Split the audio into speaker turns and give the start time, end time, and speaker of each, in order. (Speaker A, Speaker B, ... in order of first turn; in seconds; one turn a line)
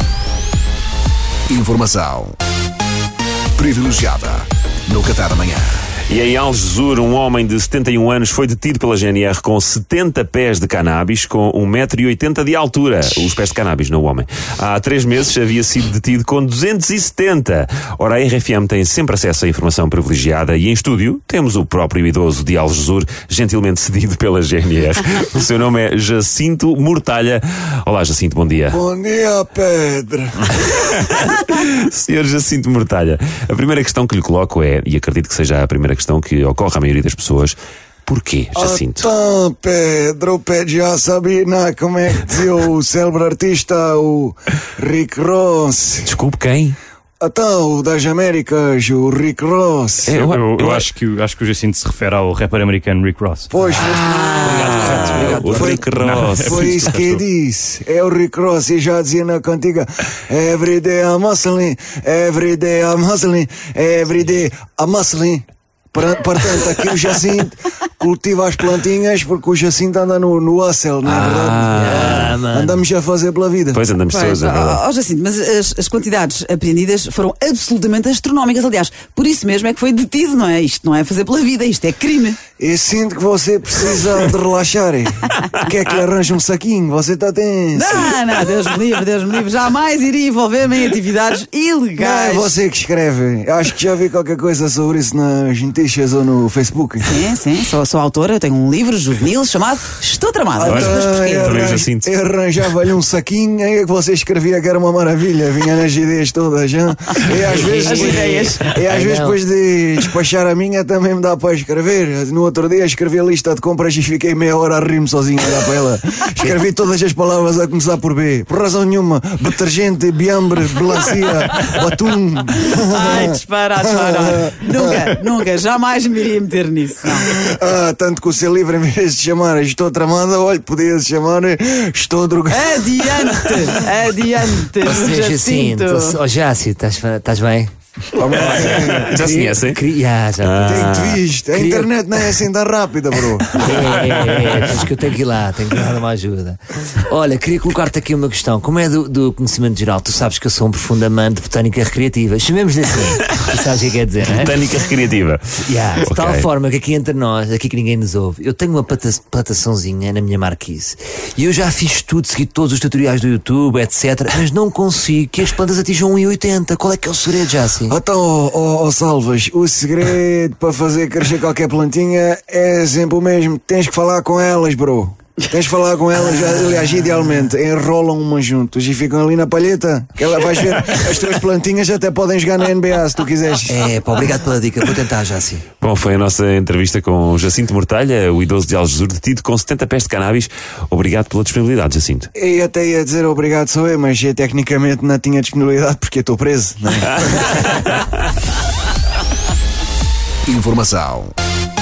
Speaker A: 1.5-2.4
Speaker A: 3.6-5.8
Speaker B: 6.1-28.8
Speaker C: 28.7-30.6
Speaker B: 30.9-39.1
Speaker C: 38.5-46.1
Speaker B: 46.0-46.8
Speaker C: 47.2-50.2
Speaker B: 50.0-50.9
Speaker D: 50.2-53.5
Speaker C: 53.5-54.2
Speaker E: 53.7-55.9
Speaker B: 53.8-57.2
Speaker D: 54.7-55.4
Speaker C: 55.4-73.8
Speaker D: 55.9-56.8
Speaker B: 71.1-72.3
Speaker E: 71.1-72.8
Speaker B: 73.7-74.8
Speaker F: 74.1-82.4
Speaker C: 82.6-88.2
Speaker F: 87.8-92.5
Speaker C: 92.0-97.2
Speaker F: 97.0-101.6
Speaker C: 100.5-125.1
Speaker B: 100.7-102.1
Speaker E: 107.4-109.4
Speaker F: 107.9-108.6
Speaker F: 122.8-127.3
Speaker C: 127.3-133.4
Speaker F: 132.5-136.2
Speaker E: 134.8-137.7
Speaker C: 138.2-139.6
Speaker B: 138.3-139.8
Speaker E: 138.4-141.9
Speaker B: 140.4-141.2
Speaker C: 140.6-143.6
Speaker E: 143.6-154.6
Speaker B: 143.6-144.4
Speaker B: 154.3-156.5
Speaker E: 155.6-168.0
Speaker C: 167.9-183.9
Speaker E: 176.6-177.2
Speaker E: 183.7-185.7
Speaker B: 185.8-192.3
Speaker C: 192.3-197.6
Speaker B: 197.2-198.1
Speaker A: 200.5-201.3